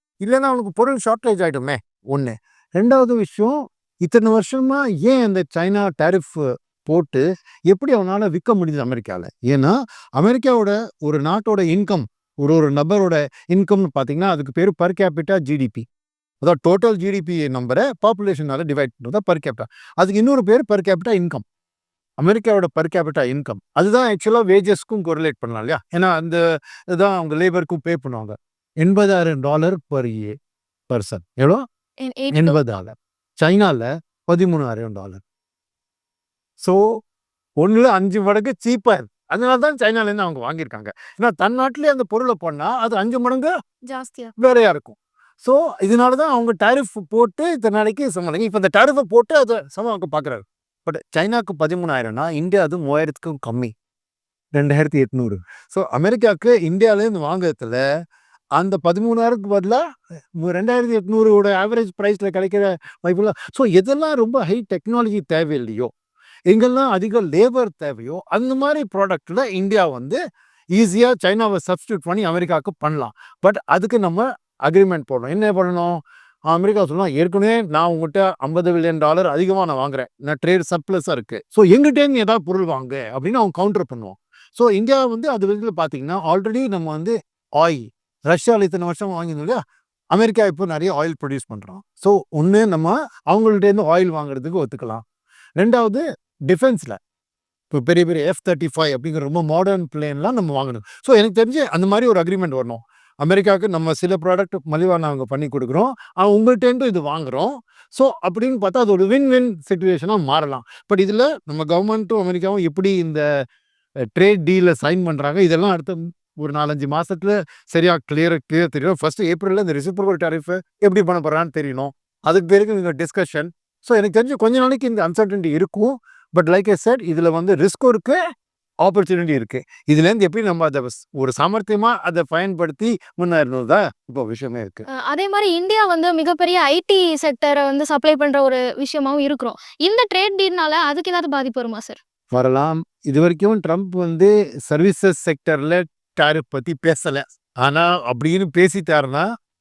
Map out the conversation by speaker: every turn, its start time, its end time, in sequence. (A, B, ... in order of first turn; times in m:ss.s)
0:00.2-0:15.8 A
0:16.4-0:21.4 A
0:22.2-0:26.4 A
0:26.9-0:30.3 A
0:30.9-0:31.6 A
0:32.0-0:32.6 B
0:32.3-0:35.2 A
0:37.6-0:43.5 A
0:43.9-0:44.3 B
0:44.4-0:53.7 A
0:54.6-0:57.8 A
0:58.6-0:59.8 A
1:00.4-1:05.9 A
1:06.5-1:10.2 A
1:10.8-1:16.0 A
1:16.5-1:29.6 A
1:30.1-1:35.0 A
1:35.6-1:37.0 A
1:37.7-1:53.2 A
1:54.2-2:08.2 A
2:08.8-2:14.8 A
2:15.1-2:22.0 B
2:22.3-2:29.2 A